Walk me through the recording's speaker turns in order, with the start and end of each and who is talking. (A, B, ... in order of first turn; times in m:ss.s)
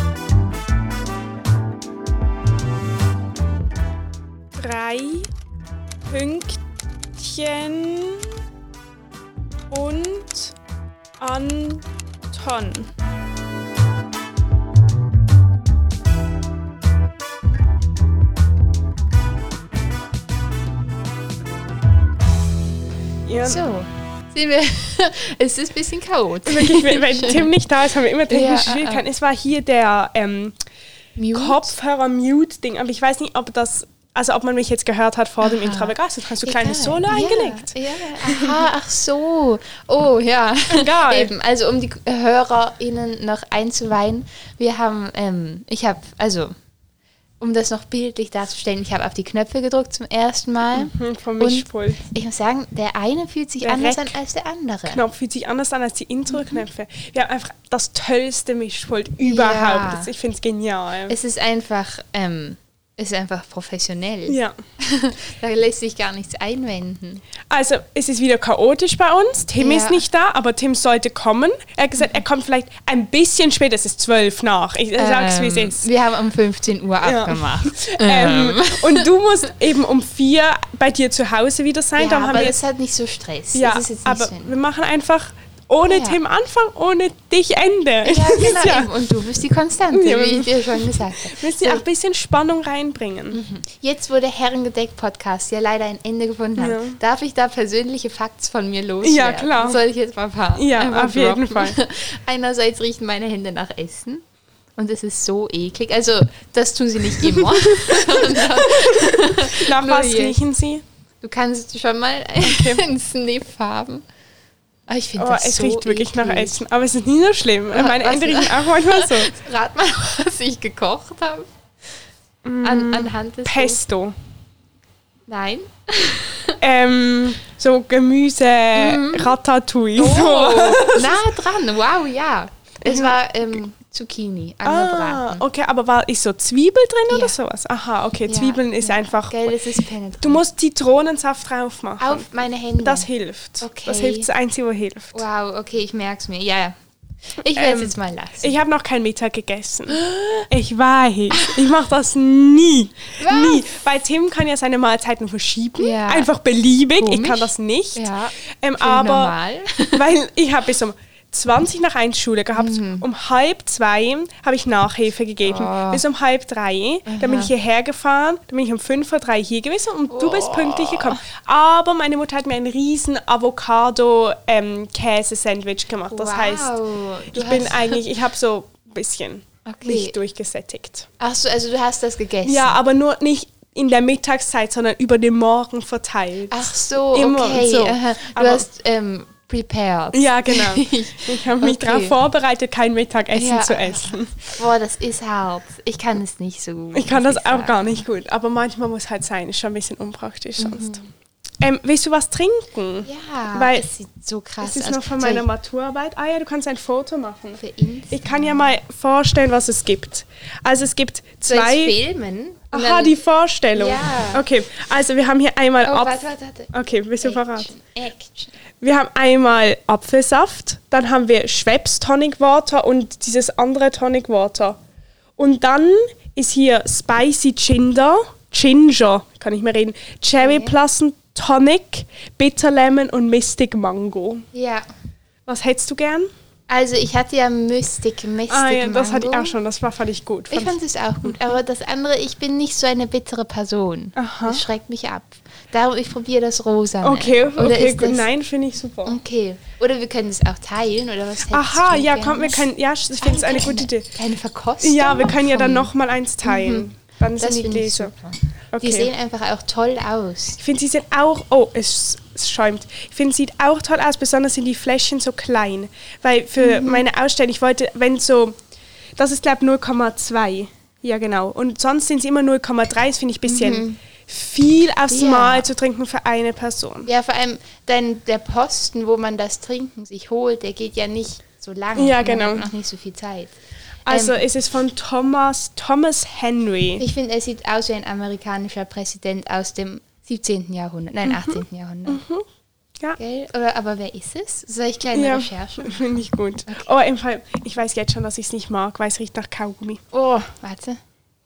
0:04.6-0:05.3 A
0:06.1-0:06.6 A
0:07.2-0:08.3 A
0:09.7-0:10.6 A
0:11.2-0:12.9 A
0:23.3-0:23.6 A
0:23.4-0:27.5 B
0:26.5-0:30.6 A
0:28.3-0:29.0 B
0:31.2-0:31.7 B
0:31.4-0:38.7 A
0:35.4-0:46.5 B
0:40.7-0:41.3 A
0:47.4-0:55.0 B
0:50.7-0:52.0 A
0:53.6-0:54.2 A
0:54.9-1:01.2 A
0:59.2-1:00.1 B
1:01.1-1:07.2 B
1:04.3-1:04.6 A
1:07.5-1:15.8 A
1:09.6-1:10.0 B
1:15.0-1:19.1 B
1:17.0-1:22.6 A
1:22.0-1:24.5 B
1:23.5-1:28.9 A
1:25.9-1:26.2 B
1:28.0-1:31.8 B
1:29.9-1:33.4 A
1:33.3-1:44.2 B
1:36.6-1:37.0 A
1:39.0-1:39.8 A
1:40.6-1:41.8 A
1:44.8-1:50.4 B
1:47.3-1:50.8 A
1:51.2-1:54.0 B
1:52.4-1:52.8 A
1:54.9-1:56.6 B
1:55.2-1:59.3 A
1:57.7-2:01.5 B
2:02.4-2:04.1 A
2:02.6-2:03.8 B
2:05.3-2:06.6 B
2:06.6-2:11.2 A
2:08.8-2:09.4 B
2:10.0-2:15.4 B
2:12.9-2:13.2 A
2:14.6-2:19.5 A
2:17.1-2:17.4 B
2:18.3-2:20.4 B
2:20.2-2:22.2 A
2:22.0-2:23.1 B
2:22.8-2:25.2 A
2:23.6-2:24.3 B
2:25.1-2:26.8 B
2:27.4-2:28.6 B
2:27.6-2:39.3 A
2:29.9-2:30.4 B
2:31.3-2:31.7 B
2:33.2-2:33.7 B
2:35.8-2:36.3 B
2:37.0-2:40.0 B
2:39.9-2:56.7 A
2:42.6-2:43.1 B
2:45.4-2:46.0 B
2:47.1-2:47.5 B
2:50.1-2:51.2 B
2:56.1-2:58.0 B
2:57.3-3:01.1 A
2:59.7-3:00.1 B
3:01.2-3:02.8 B
3:02.4-3:08.6 A
3:06.5-3:12.2 B
3:10.1-3:14.4 A
3:13.3-3:18.0 B
3:16.9-3:21.0 A
3:20.6-3:21.0 B
3:21.6-3:23.8 A
3:23.0-3:25.5 B
3:24.6-3:32.0 A
3:27.6-3:28.8 B
3:31.5-3:33.2 B
3:32.7-3:36.2 A
3:33.8-3:34.4 B
3:35.8-3:36.7 B
3:36.7-3:37.7 A
3:37.2-3:38.5 B
3:38.8-3:44.8 A
3:45.4-3:54.4 A
3:50.4-3:50.8 B
3:54.5-3:54.9 B
3:55.5-3:56.3 A
3:56.7-3:59.6 B
3:58.5-4:00.8 A
4:00.5-4:08.3 B
4:04.2-4:04.6 A
4:07.0-4:09.2 A
4:09.1-4:12.6 B
4:11.5-4:14.1 A
4:13.2-4:15.9 B
4:14.8-4:18.1 A
4:16.4-4:20.6 B
4:18.7-4:19.1 A
4:20.6-4:28.6 A
4:26.6-4:27.0 B
4:29.2-4:37.1 A
4:33.5-4:34.0 B
4:35.1-4:35.7 B
4:37.0-4:43.6 B
4:42.0-4:42.7 A
4:44.1-4:47.0 A
4:44.1-4:44.4 B
4:47.0-4:52.2 B
4:51.2-4:52.4 A
4:53.2-4:56.1 B
4:55.1-5:00.2 A
5:00.1-5:01.0 B